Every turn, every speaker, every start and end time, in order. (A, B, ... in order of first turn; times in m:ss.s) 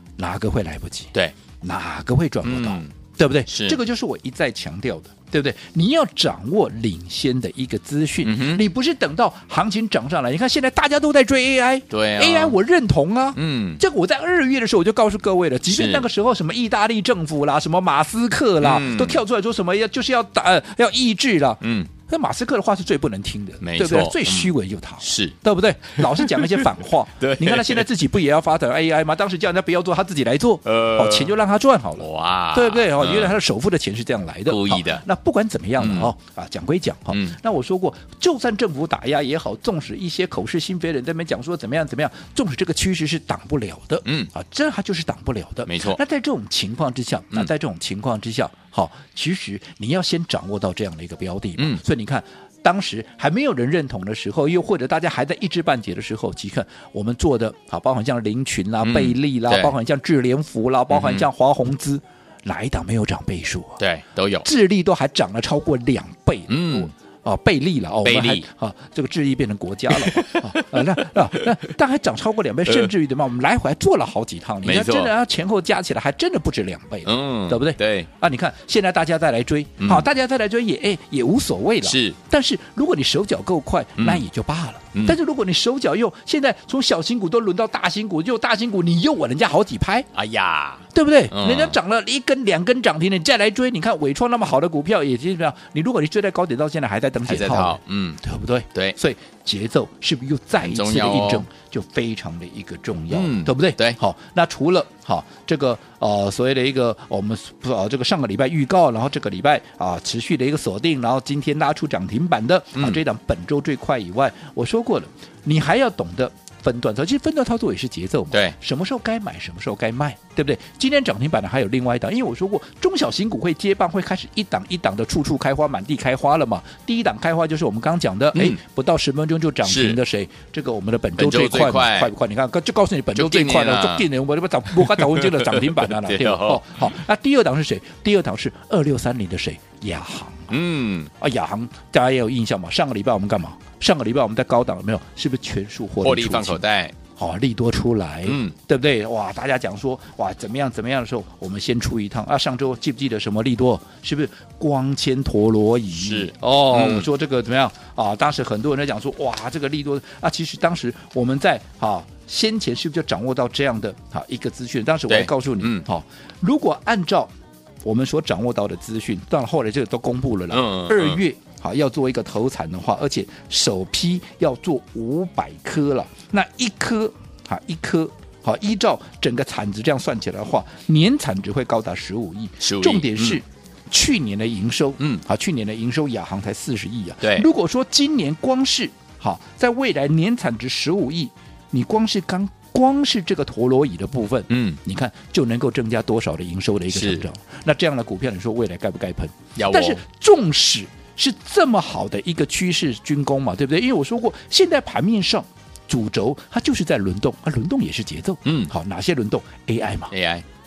0:00.2-1:03.8 A
0:02.4-0:02.9 B
0:03.5-0:03.8 B
0:08.2-0:08.6 B
0:11.9-0:12.6 B
0:13.4-0:13.8 B
0:15.7-0:16.1 B
0:18.6-0:19.2 B
0:21.6-0:21.9 B
0:23.6-0:25.4 B
0:25.9-0:27.9 B
0:30.6-0:31.4 B
0:32.0-0:33.4 B
0:34.5-0:35.0 B
0:35.8-0:36.1 B
0:37.1-0:37.4 B
0:44.0-0:44.3 B
0:45.7-0:46.0 B
0:51.6-0:51.8 B
0:58.8-0:59.8 B
1:00.9-1:01.3 B
1:03.8-1:04.5 B
1:04.4-1:30.1 A
1:06.5-1:06.9 B
1:08.0-1:08.5 B
1:09.9-1:11.5 B
1:14.6-1:15.1 B
1:17.0-1:18.1 B
1:19.8-1:20.1 B
1:21.8-1:22.2 B
1:24.0-1:24.2 B
1:30.1-1:31.8 B
1:30.9-2:20.6 A
1:37.2-1:38.2 B
1:40.6-1:41.5 B
1:43.1-1:44.0 B
1:52.8-1:53.0 B
2:08.3-2:08.6 B
2:09.6-2:10.0 B
2:11.2-2:12.1 B
2:13.2-2:14.1 B
2:14.7-2:16.9 B
2:20.5-2:21.1 B
2:21.2-2:26.6 A
2:26.0-2:27.0 B
2:27.2-2:47.3 A
2:28.2-2:28.6 B
2:35.9-2:37.1 B
2:45.1-2:45.9 B
2:47.8-3:30.1 A
2:50.5-2:51.2 B
3:02.6-3:03.4 B
3:07.2-3:07.5 B
3:14.5-3:14.8 B
3:16.9-3:17.2 B
3:19.6-3:20.0 B
3:28.4-3:28.7 B
3:30.1-3:30.4 B